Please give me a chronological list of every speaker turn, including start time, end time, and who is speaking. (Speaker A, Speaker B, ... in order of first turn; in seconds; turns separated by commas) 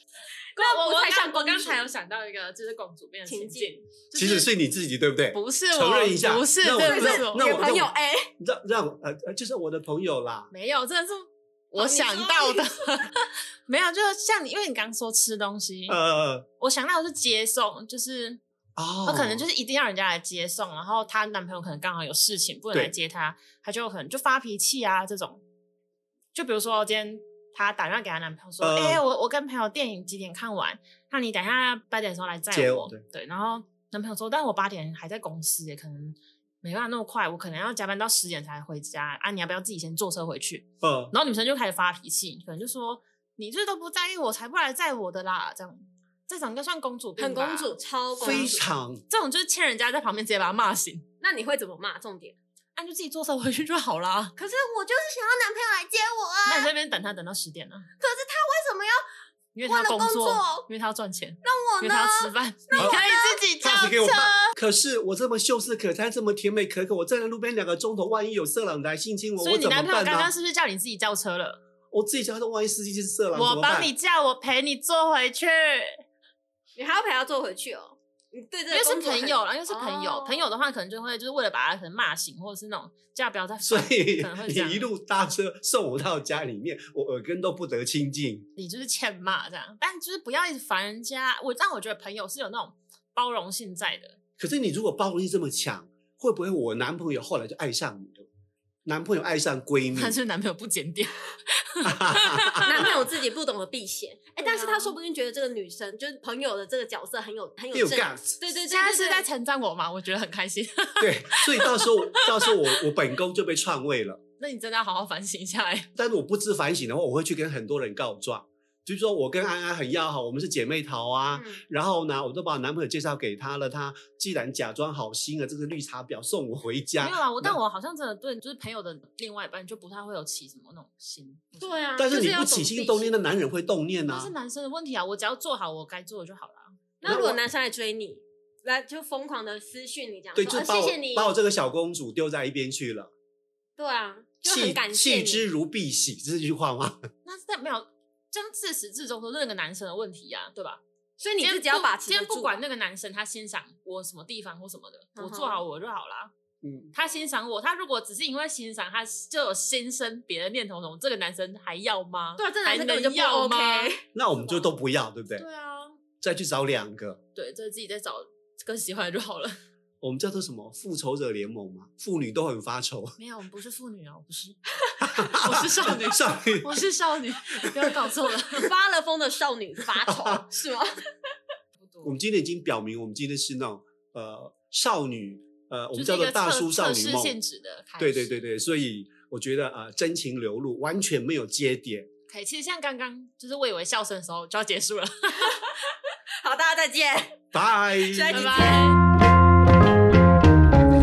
Speaker A: 0.5-4.5, Speaker B: 0.6-1.9, Speaker B: 3.2-3.8, Speaker C: 4.1-10.5, Speaker A: 5.3-7.6, Speaker B: 6.8-8.3, Speaker A: 10.5-16.0, Speaker B: 11.8-12.7, Speaker C: 15.9-16.5, Speaker A: 16.6-18.4, Speaker C: 18.8-19.4, Speaker A: 19.0-25.4, Speaker A: 26.3-51.0, Speaker C: 28.6-29.0, Speaker C: 32.5-33.0, Speaker C: 40.8-41.1, Speaker B: 47.2-48.6, Speaker C: 48.2-49.0, Speaker B: 51.2-52.4, Speaker A: 52.8-54.3, Speaker B: 54.4-56.7, Speaker A: 56.5-57.9, Speaker B: 58.0-59.0, Speaker A: 59.5-64.5, Speaker B: 59.6-60.7, Speaker B: 61.4-64.1, Speaker C: 63.6-70.3, Speaker A: 69.4-71.6, Speaker C: 71.9-73.9, Speaker A: 73.3-76.0, Speaker B: 76.7-80.5, Speaker A: 78.7-84.9, Speaker C: 83.6-88.5, Speaker A: 88.6-94.2, Speaker C: 94.4-98.3, Speaker C: 98.8-100.2, Speaker A: 99.9-103.0, Speaker C: 101.8-102.7, Speaker B: 102.6-109.3, Speaker A: 104.4-104.9, Speaker C: 107.7-108.3, Speaker A: 108.6-112.8, Speaker C: 111.0-114.2, Speaker A: 114.4-115.9, Speaker C: 115.9-127.6, Speaker B: 121.3-121.6, Speaker A: 127.0-131.8, Speaker B: 131.6-133.1, Speaker C: 132.0-134.3, Speaker A: 134.1-136.8, Speaker B: 137.0-141.3, Speaker C: 137.1-137.4, Speaker C: 140.3-143.1, Speaker B: 143.8-145.5, Speaker C: 144.4-147.0, Speaker A: 147.2-150.8, Speaker B: 151.2-152.6, Speaker A: 151.4-156.3, Speaker B: 155.2-155.6, Speaker C: 156.6-156.9, Speaker A: 156.9-164.8, Speaker B: 162.4-164.0, Speaker C: 164.1-165.4, Speaker A: 165.3-166.0, Speaker C: 166.2-167.2, Speaker A: 167.3-169.6, Speaker C: 170.0-173.2, Speaker A: 173.2-178.7, Speaker C: 175.0-176.8, Speaker B: 178.5-181.3, Speaker C: 180.1-180.4, Speaker A: 181.8-182.2, Speaker C: 182.0-187.4, Speaker A: 185.9-188.3, Speaker C: 188.0-192.1, Speaker A: 192.3-195.6, Speaker B: 196.4-199.0, Speaker C: 197.5-198.3, Speaker A: 198.3-199.0